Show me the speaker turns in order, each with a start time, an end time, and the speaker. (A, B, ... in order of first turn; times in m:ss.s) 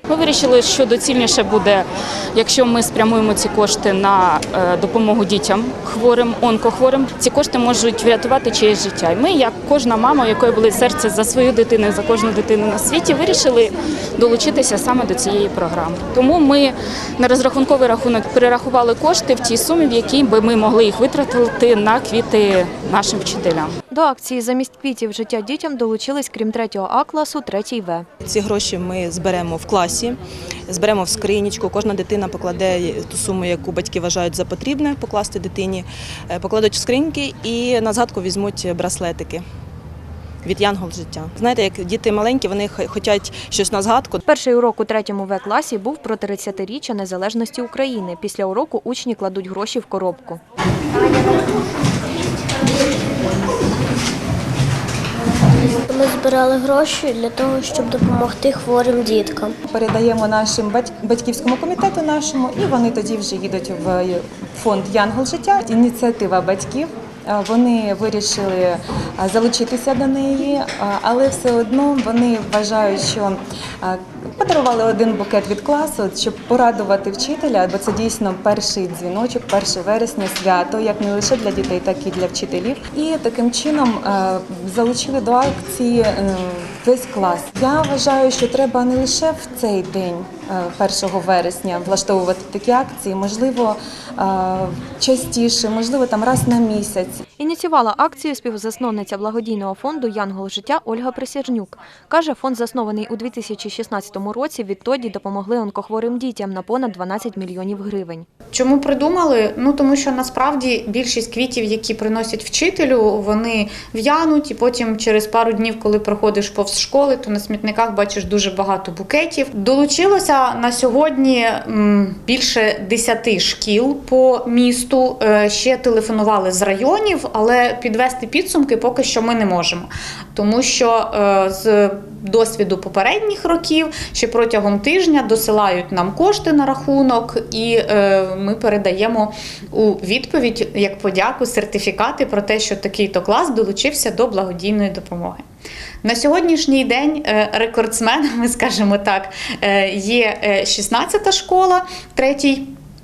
0:00.1-0:23.7 A
0:23.9-0:28.1 B
0:28.2-0:39.4 C
0:40.4-0:44.2 C
0:44.2-0:50.4 B
0:51.0-0:51.4 D
0:55.6-0:59.6 D
0:59.7-1:37.2 E
1:37.4-1:48.2 B
1:48.5-2:25.4 F
2:26.0-2:32.7 F